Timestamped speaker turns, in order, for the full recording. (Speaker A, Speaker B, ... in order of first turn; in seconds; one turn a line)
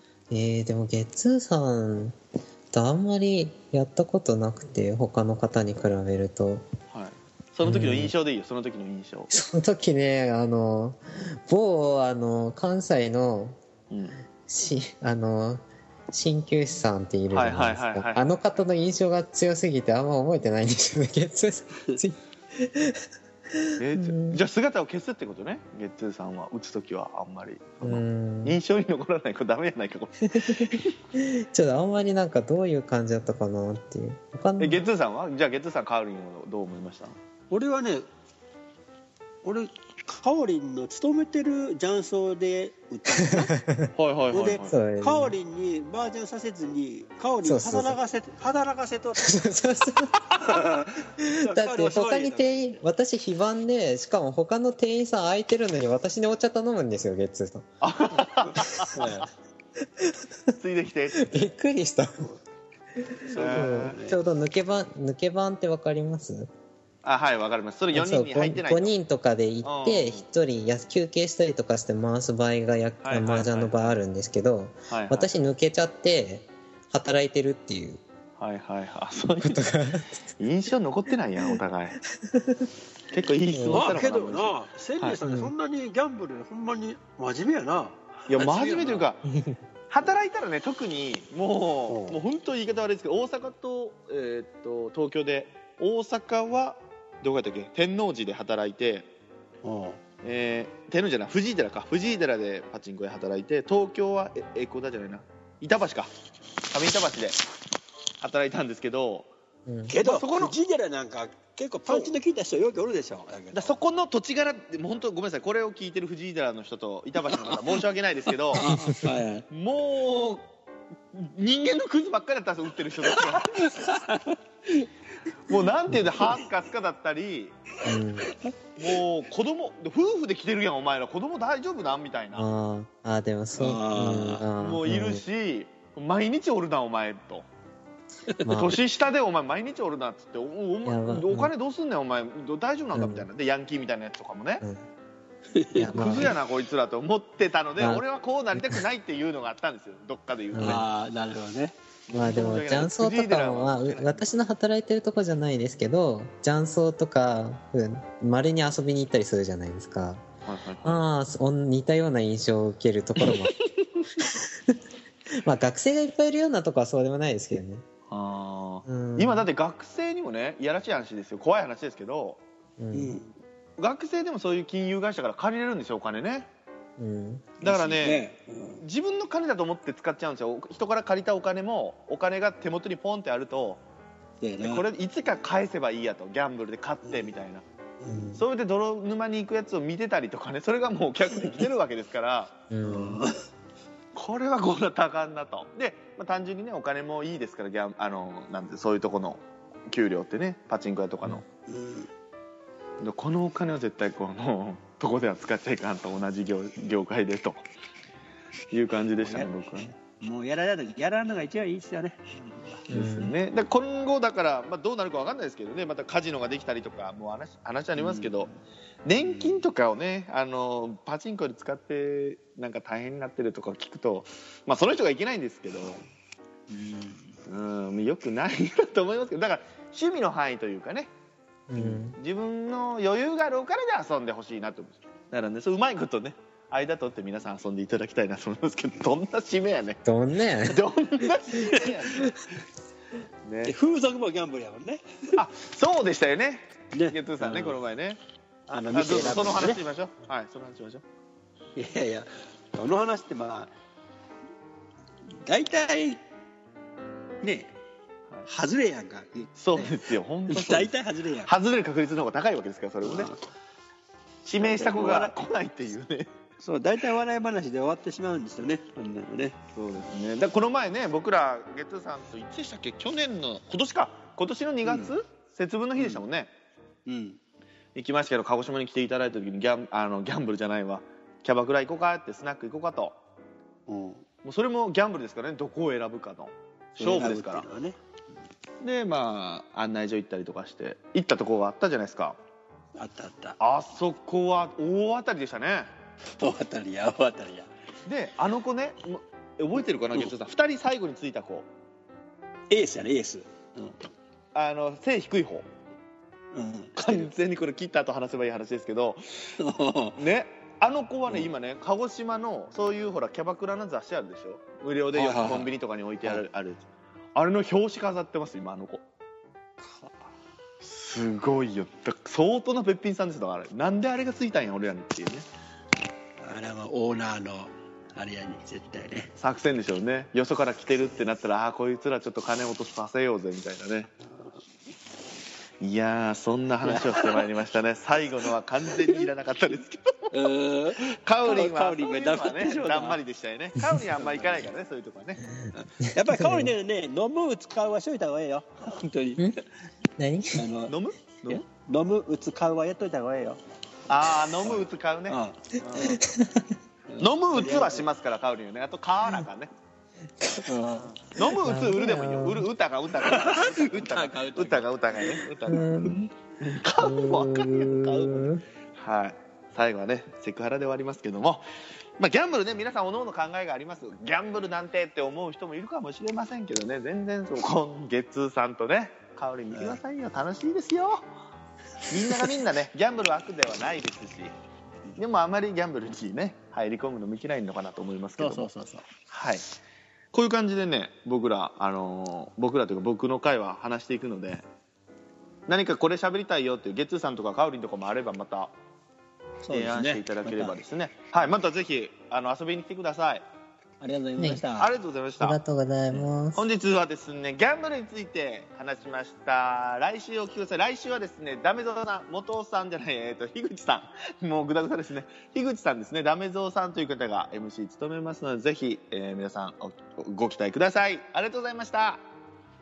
Speaker A: 0.3-2.2
Speaker A: 2.7-6.6
Speaker B: 6.9-9.3
Speaker A: 7.6-8.1
Speaker A: 9.3-13.6
Speaker B: 13.9-14.2
Speaker A: 14.5-24.4
Speaker B: 17.3-18.4
Speaker B: 23.8-30.9
Speaker A: 27.8-28.6
Speaker A: 30.3-34.8
Speaker B: 34.6-37.2
Speaker C: 37.5-38.1
Speaker C: 39.4-43.6
Speaker A: 43.4-43.9
Speaker B: 44.0-44.8
Speaker C: 44.3-49.3
Speaker A: 44.7-45.3
Speaker A: 47.4-48.0
Speaker A: 49.2-50.3
Speaker C: 50.4-52.7
Speaker A: 51.2-57.7
Speaker B: 57.8-58.9
Speaker A: 58.6-59.0
Speaker C: 58.9-59.3
Speaker A: 60.0-60.5
Speaker B: 60.5-61.5
Speaker A: 61.2-62.4
Speaker A: 63.0-66.5
Speaker C: 63.3-64.2
Speaker B: 63.3-64.0
Speaker B: 67.0-68.9
Speaker A: 67.9-78.0
Speaker B: 69.6-70.2
Speaker B: 73.0-74.0
Speaker B: 74.9-75.3
Speaker B: 78.4-79.8
Speaker A: 79.4-80.2
Speaker B: 80.4-82.0
Speaker A: 82.2-82.7
Speaker B: 83.1-85.2
Speaker A: 83.5-84.0
Speaker C: 83.7-89.1
Speaker A: 85.2-85.5
Speaker B: 88.3-89.2
Speaker A: 89.3-89.6
Speaker B: 89.9-99.1
Speaker C: 91.9-92.2
Speaker C: 99.6-100.0
Speaker B: 100.2-106.1
Speaker B: 106.7-107.4
Speaker B: 108.2-109.3
Speaker A: 109.7-109.9
Speaker C: 109.9-113.8
Speaker B: 110.0-110.5
Speaker B: 113.5-118.7
Speaker C: 117.3-117.8
Speaker C: 118.5-119.5
Speaker B: 119.5-120.5
Speaker B: 121.1-124.0
Speaker C: 123.1-124.9
Speaker B: 125.5-127.5
Speaker A: 127.8-128.3
Speaker C: 128.2-128.5
Speaker B: 128.8-132.5
Speaker A: 132.3-135.2
Speaker C: 133.6-134.4
Speaker B: 134.6-137.5
Speaker A: 138.4-138.8
Speaker B: 138.5-144.6
Speaker A: 140.8-141.5
Speaker A: 142.9-143.3
Speaker C: 145.5-146.3
Speaker A: 145.8-146.3
Speaker B: 145.9-150.9
Speaker A: 147.8-148.8
Speaker A: 150.5-150.8
Speaker C: 150.6-151.8
Speaker B: 152.1-154.2
Speaker A: 152.1-160.2
Speaker B: 160.4-161.0
Speaker A: 160.8-163.6
Speaker B: 163.2-164.0
Speaker A: 164.2-164.8
Speaker A: 165.3-167.8
Speaker B: 168.1-172.4
Speaker A: 168.9-169.5
Speaker A: 172.8-173.2
Speaker C: 172.9-173.3
Speaker B: 173.8-176.5
Speaker A: 177.0-177.6
Speaker B: 177.6-178.3
Speaker C: 177.6-178.8
Speaker B: 178.8-183.8
Speaker C: 184.4-184.8
Speaker B: 184.6-187.6
Speaker C: 187.0-187.3
Speaker C: 188.0-188.3
Speaker A: 188.1-188.4
Speaker B: 188.3-192.6
Speaker C: 191.4-191.7
Speaker A: 192.7-193.2
Speaker C: 192.8-193.4
Speaker B: 194.2-201.4
Speaker C: 201.7-202.1
Speaker B: 203.0-207.6
Speaker B: 208.7-209.9
Speaker C: 209.2-212.8
Speaker B: 212.9-218.5
Speaker A: 212.9-213.3
Speaker C: 218.0-218.6
Speaker B: 219.1-226.0
Speaker C: 219.2-219.6
Speaker C: 226.7-227.4
Speaker B: 227.5-231.1
Speaker A: 231.7-232.2
Speaker B: 231.8-240.0
Speaker A: 240.1-240.8
Speaker B: 240.7-242.4
Speaker C: 241.6-241.9
Speaker B: 243.4-243.8
Speaker C: 243.6-245.4
Speaker B: 245.4-248.2
Speaker C: 246.9-247.8
Speaker C: 248.7-249.8
Speaker B: 248.9-251.0
Speaker C: 251.8-253.7
Speaker C: 255.3-256.2
Speaker C: 257.4-257.7
Speaker C: 258.5-261.5
Speaker B: 259.6-260.9
Speaker B: 261.4-263.3
Speaker C: 263.0-263.4
Speaker B: 264.4-266.3
Speaker C: 264.6-265.3
Speaker C: 266.6-269.6
Speaker B: 269.8-276.5
Speaker C: 274.9-275.1
Speaker C: 276.0-276.2
Speaker C: 277.1-277.4
Speaker B: 277.9-283.1
Speaker C: 283.9-284.2
Speaker B: 284.4-287.7
Speaker C: 287.0-288.0
Speaker B: 288.8-292.4
Speaker C: 293.0-293.6
Speaker B: 293.6-295.9
Speaker C: 296.4-297.7
Speaker B: 298.1-301.7
Speaker C: 302.7-304.1
Speaker B: 304.5-305.7
Speaker C: 306.5-307.3
Speaker B: 307.0-309.5
Speaker C: 309.6-310.2
Speaker B: 310.2-316.8
Speaker C: 315.1-315.7
Speaker B: 317.4-319.0
Speaker C: 319.8-320.1
Speaker B: 320.8-325.4
Speaker C: 326.4-329.3
Speaker B: 329.4-334.1
Speaker B: 335.8-340.3
Speaker C: 336.8-337.4
Speaker C: 339.0-339.2
Speaker C: 340.3-343.2
Speaker B: 341.0-345.4
Speaker C: 344.2-344.7
Speaker C: 345.7-349.6
Speaker A: 346.2-346.7
Speaker A: 350.2-350.6
Speaker C: 350.5-350.9
Speaker B: 350.9-351.6
Speaker C: 351.5-353.6
Speaker B: 354.1-356.2
Speaker C: 354.6-356.2
Speaker A: 356.2-356.7
Speaker C: 357.1-358.1
Speaker B: 357.2-359.7
Speaker C: 360.6-361.2
Speaker B: 361.3-371.6
Speaker A: 361.5-362.6
Speaker C: 363.2-365.4
Speaker A: 365.7-366.3
Speaker A: 367.0-368.6
Speaker B: 372.2-381.3
Speaker C: 379.7-380.0
Speaker B: 382.1-384.5
Speaker C: 382.1-382.6
Speaker B: 385.2-388.7
Speaker C: 388.4-389.1
Speaker B: 389.3-389.6
Speaker B: 390.3-394.6
Speaker B: 395.7-398.7
Speaker C: 399.6-400.8
Speaker B: 399.7-403.4
Speaker C: 404.0-404.9
Speaker A: 404.4-404.6
Speaker B: 404.8-405.6
Speaker A: 405.4-406.7
Speaker B: 406.5-422.2